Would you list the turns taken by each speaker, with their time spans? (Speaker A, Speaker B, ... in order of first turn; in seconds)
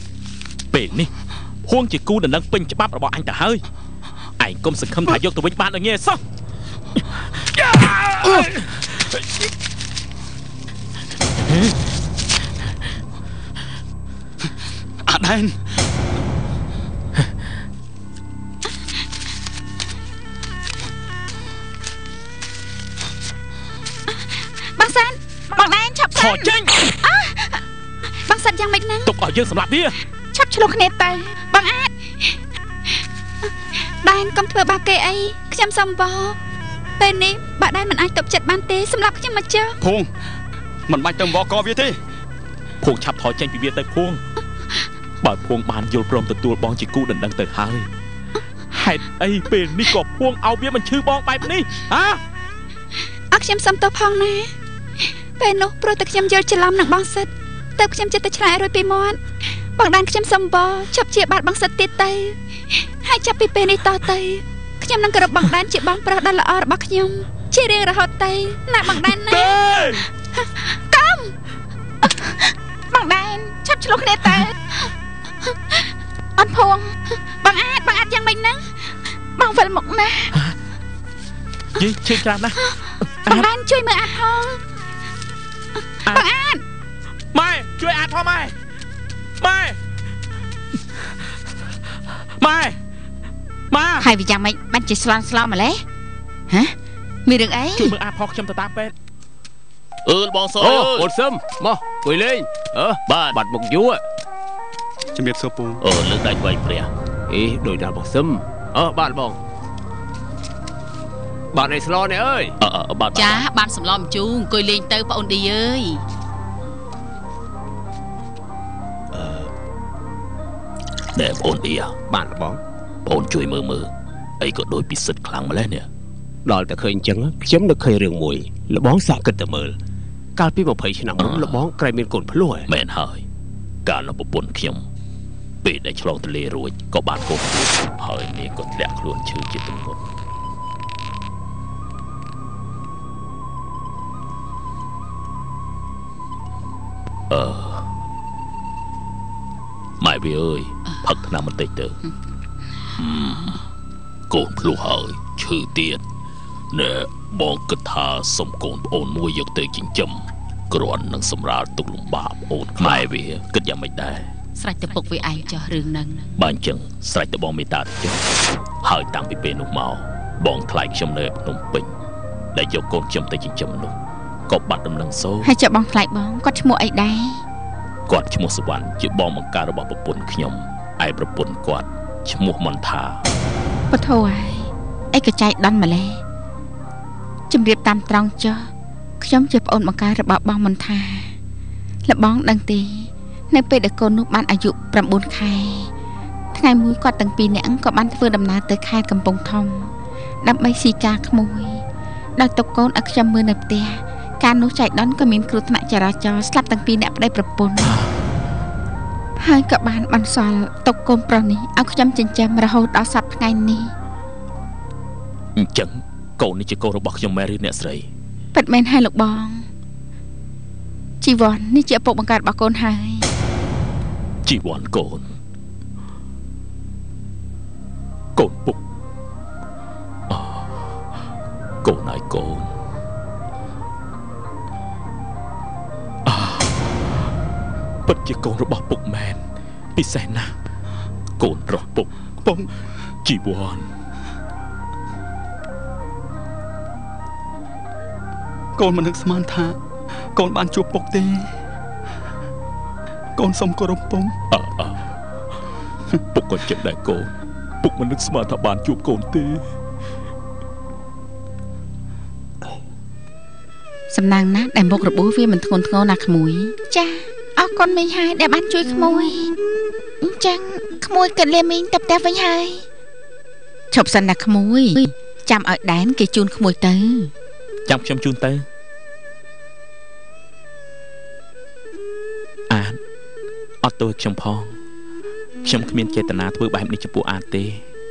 Speaker A: 0.7-1.1, 1.7-3.6, 4.4-6.2, 7.0-8.9, 26.1-26.9, 29.1-30.0, 42.8-44.2, 45.2-47.9, 48.7-52.2, 69.1-70.0, 81.8-83.5, 87.3-88.5, 89.4-89.8, 92.4-92.8, 93.7-94.1, 97.8-98.9, 100.0-101.1, 103.1-103.4, 105.8-106.9, 112.6-113.5, 121.2-121.9, 123.1-125.9, 131.2-131.7, 132.7-133.2, 133.9-134.8, 135.6-140.0, 147.3-147.9, 150.0-151.9, 153.0-153.6, 154.3-156.0, 156.7-164.2, 166.4-168.2, 168.8-171.9, 172.5-173.9, 174.5-175.5, 178.1-183.2, 207.8-208.1, 215.6-218.1, 224.4-225.3, 228.4-228.8, 230.3-230.9, 231.8-232.7, 236.3-237.0, 238.1-239.4, 239.9-240.5, 241.4-242.1, 243.2-243.9, 254.5-255.0, 256.3-259.6, 277.9-278.7, 282.7-283.0, 283.8-284.8, 285.6-287.8
Speaker B: 15.1-15.6, 39.8-40.1, 40.9-42.0, 105.1-105.8, 242.4-242.7, 248.8-249.8, 250.3-251.5, 253.4-254.3
Speaker C: 24.8-27.6, 30.3-31.8, 72.2-74.6, 76.4-77.0, 79.4-80.3, 94.0-95.8, 96.5-97.9, 175.4-177.4, 183.9-186.2, 187.5-191.3, 192.1-195.9, 196.5-199.9, 200.4-201.8, 202.4-207.9, 209.4-213.9, 218.5-219.7, 221.2-223.3, 264.1-269.5, 270.2-272.9, 273.9-277.3
Speaker D: 28.2-29.1, 34.0-36.4, 37.0-39.8, 53.3-54.5, 55.0-59.2, 59.8-69.6, 70.4-71.3, 77.4-78.7, 82.6-84.6, 86.1-86.6
Speaker E: 100.6-104.0, 107.3-109.4, 111.5-112.6, 119.1-119.5, 122.1-122.6, 126.5-129.8, 130.4-132.7
Speaker F: 113.2-116.0, 164.6-166.3